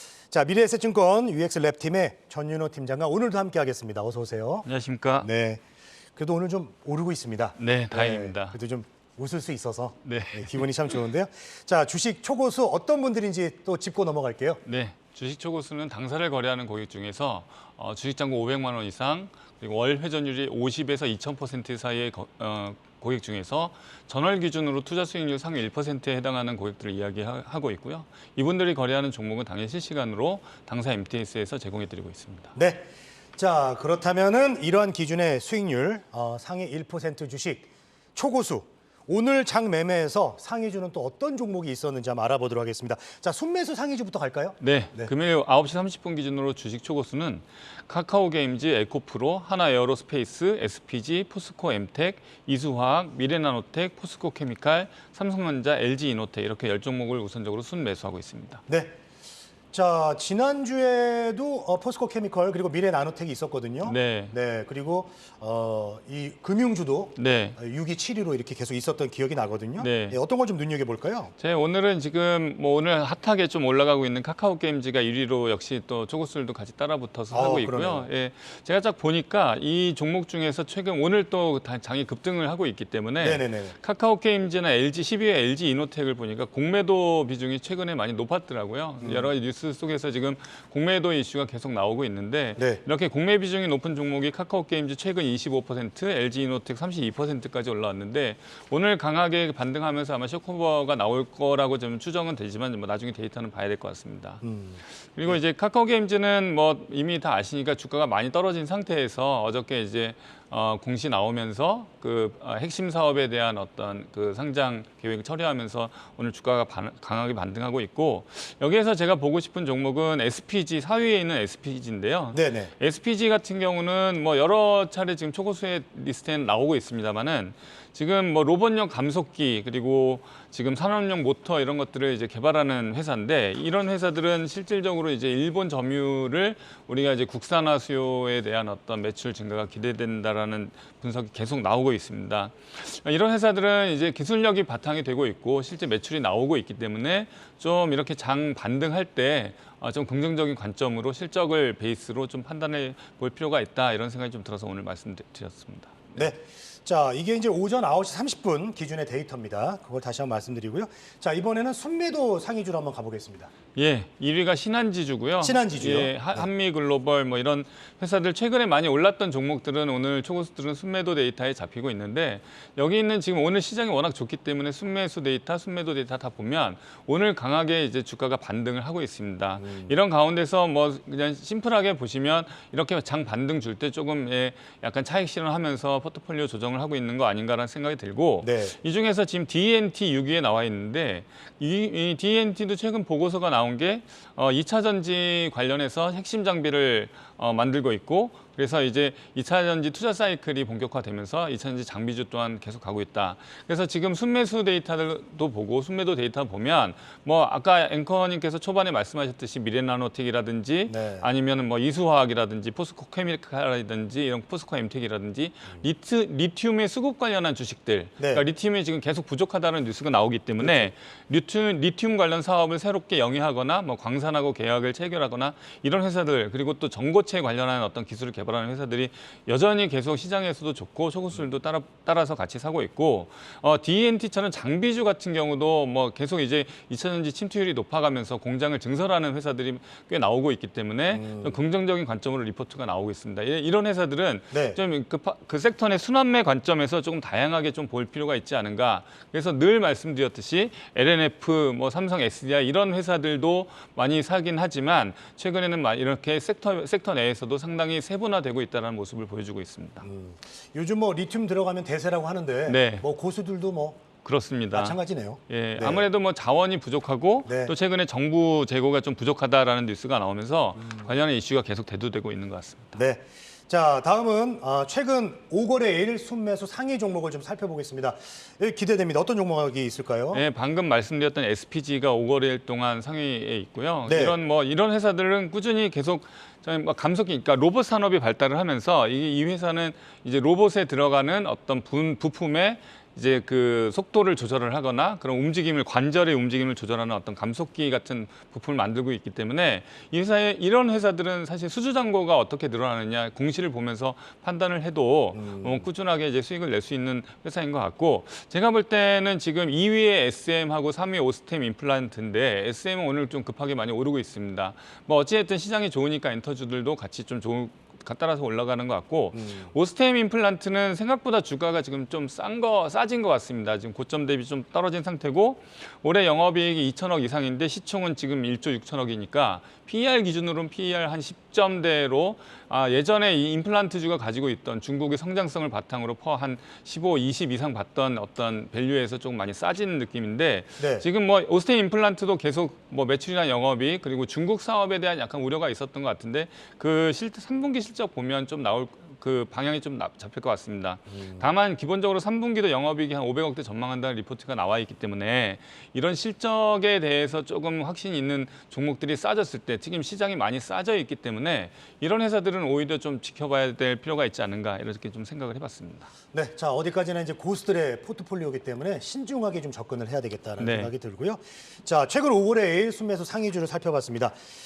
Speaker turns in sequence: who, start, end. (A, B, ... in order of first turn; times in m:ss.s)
0:00.3-0:04.6 A
0:04.6-0:05.3 B
0:05.2-0:05.6 A
0:06.2-0:14.6 A
0:07.6-0:08.6 B
0:10.0-0:10.6 B
0:14.6-0:32.5 B
0:32.5-0:32.8 A
0:33.4-0:45.1 A
0:44.6-0:58.6 B
0:58.7-0:58.9 A
0:59.7-1:11.3 A
1:03.8-1:04.3 B
1:07.2-1:07.6 B
1:09.8-1:10.2 B
1:11.4-1:44.4 B
1:17.3-1:18.1 A
1:23.2-1:23.8 A
1:29.0-1:29.3 A
1:44.4-1:45.4 A
1:45.2-2:36.3 B
2:02.3-2:02.7 A
2:36.1-2:43.5 A
2:43.8-4:20.0 B
2:45.4-2:46.5 A
2:59.6-2:59.9 A
3:08.4-3:08.7 A
3:30.9-3:31.2 A
3:40.6-3:40.9 A
4:01.1-4:01.6 A
4:04.5-4:04.8 A
4:20.0-4:24.0 A
4:22.7-4:23.0 B
4:24.2-4:25.0 B
4:24.7-4:26.0 A
4:25.5-4:33.0 B
4:27.4-4:27.7 A
4:32.9-4:40.4 A
4:40.3-6:06.1 B
4:44.1-4:44.4 A
5:05.4-5:05.9 A
5:19.3-5:19.7 A
5:40.8-5:41.0 A
6:06.3-6:14.4 A
6:10.6-6:10.9 B